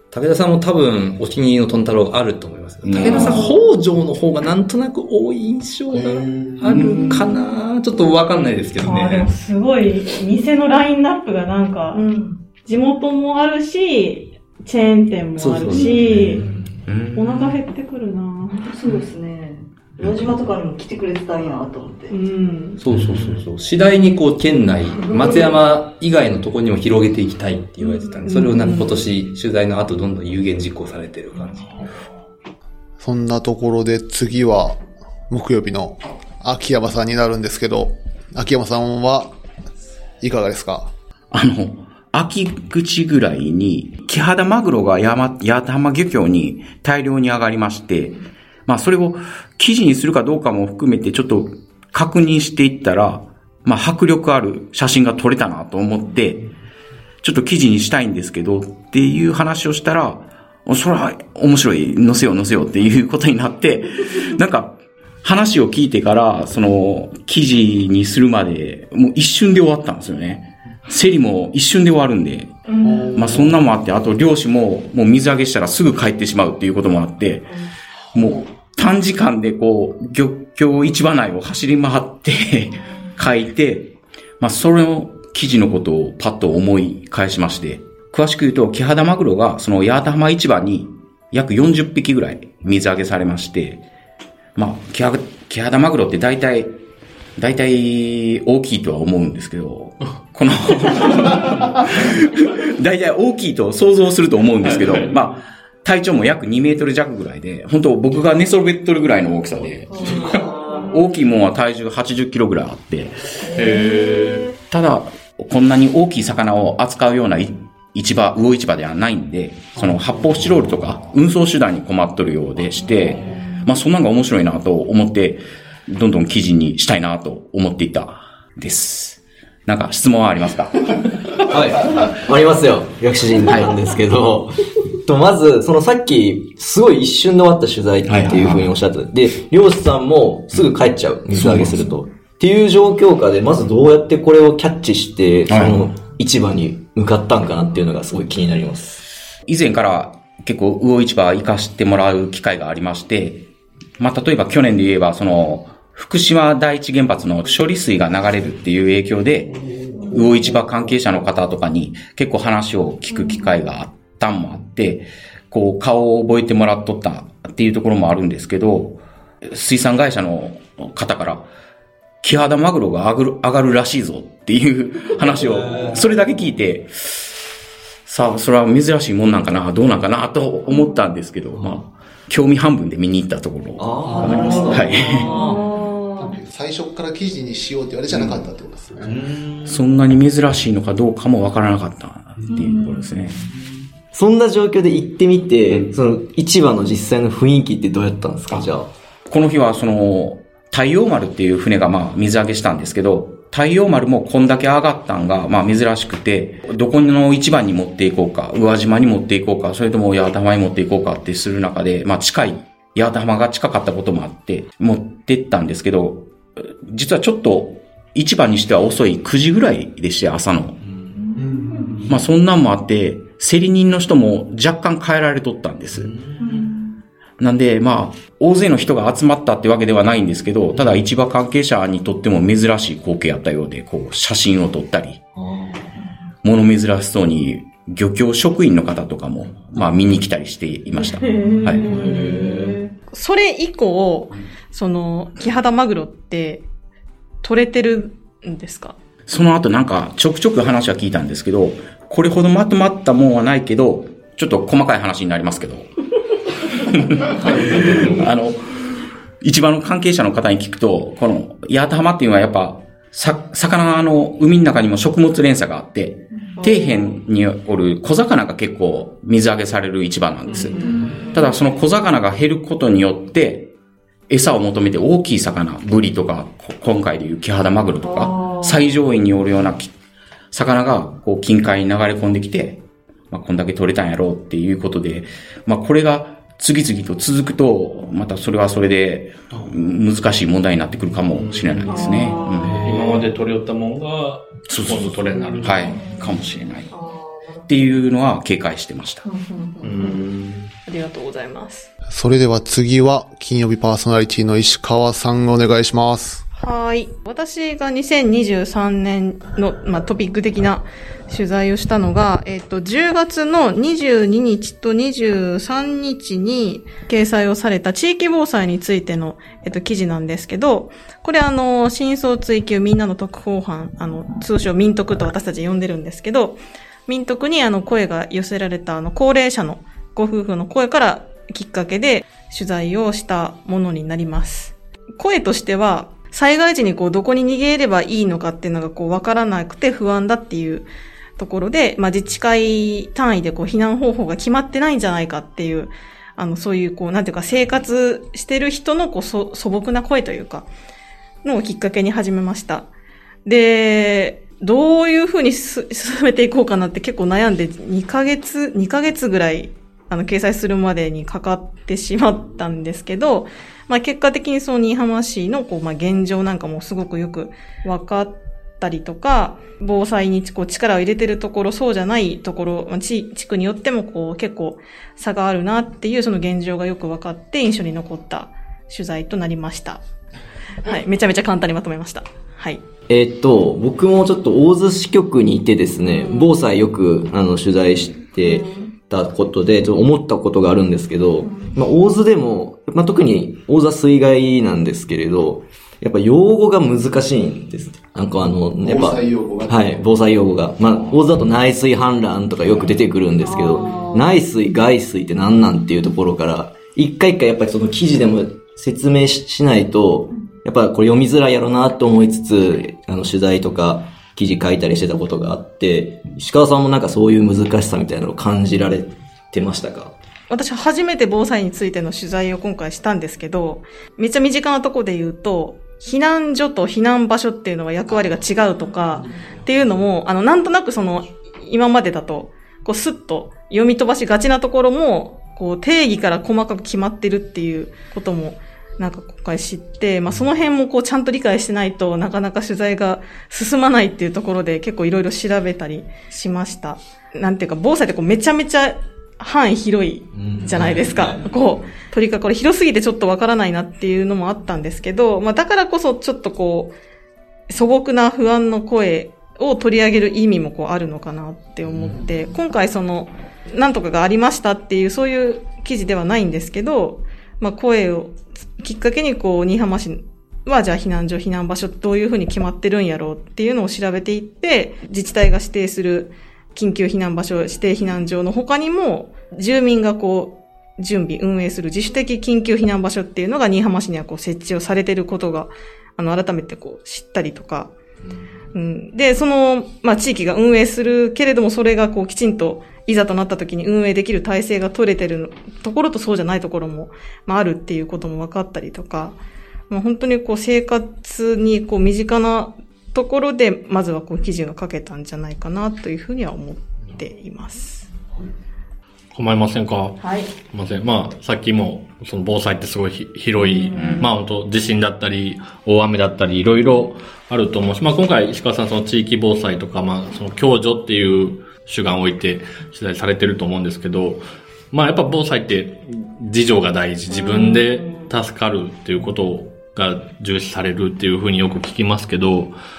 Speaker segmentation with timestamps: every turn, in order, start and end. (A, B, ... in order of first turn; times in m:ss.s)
0:00.1-0:09.3 A
0:02.8-0:03.5 B
0:06.0-0:06.8 C
0:06.7-0:07.1 B
0:08.8-0:12.0 D
0:11.9-0:12.4 E
0:12.6-0:16.4 D
0:15.4-0:16.8 A
0:16.9-0:17.6 B
0:17.1-0:18.7 D
0:18.6-0:22.1 E
0:22.1-0:22.8 D
0:22.8-0:31.9 A
0:22.9-0:23.4 B
0:28.2-0:29.0 D
0:33.0-0:39.3 C
0:40.2-0:40.9 C
0:41.3-0:56.4 B
0:57.2-1:12.5 B
1:12.7-1:13.2 D
1:12.8-1:13.4 C
1:13.1-1:17.5 B
1:18.1-1:33.8 B
1:34.5-1:36.8 B
1:37.4-1:53.6 B
1:44.7-1:45.0 F
1:53.5-1:54.5 F
1:54.7-2:11.5 B
2:11.5-2:29.1 G
2:13.5-2:13.8 B
2:18.0-2:18.7 B
2:21.3-2:21.9 B
2:25.5-2:26.0 B
2:29.4-2:33.4 B
2:34.0-2:51.5 B
2:52.2-2:57.3 B
2:55.3-2:56.0 G
2:58.1-3:05.3 B
3:03.8-3:05.6 G
3:05.3-3:06.2 D
3:06.2-3:09.2 C
3:09.1-3:09.8 G
3:09.6-3:13.4 B
3:14.1-3:18.9 G
3:19.3-3:36.3 B
3:36.8-3:40.8 B
3:41.4-3:42.1 C
3:42.1-3:46.5 B
3:47.4-3:55.2 B
3:56.4-4:02.1 B
4:01.0-4:02.1 D
4:01.8-4:02.8 G
4:03.1-4:06.6 D
4:07.4-4:08.9 D
4:09.3-4:15.9 B
4:16.7-4:33.7 B
4:17.8-4:18.2 F
4:34.3-4:39.9 B
4:40.5-4:53.2 B
4:52.0-4:52.3 D
4:52.7-4:56.0 F
4:54.7-4:56.9 B
4:57.7-4:59.2 B
4:59.8-5:00.7 F
5:00.8-5:01.9 D
5:02.1-5:06.4 C
5:06.6-5:40.9 D
5:41.4-5:50.7 D
5:51.4-5:52.9 D
5:53.4-6:20.0 D
6:20.8-6:22.8 D
6:23.1-7:00.1 G
6:38.8-6:40.0 C
7:00.5-7:36.9 D
7:30.3-7:31.8 G
7:37.7-8:07.9 D
8:08.7-8:19.4 D
8:19.9-8:28.1 D
8:29.3-8:52.8 F
8:30.2-8:30.5 D
8:33.9-8:34.3 B
8:47.4-8:47.8 D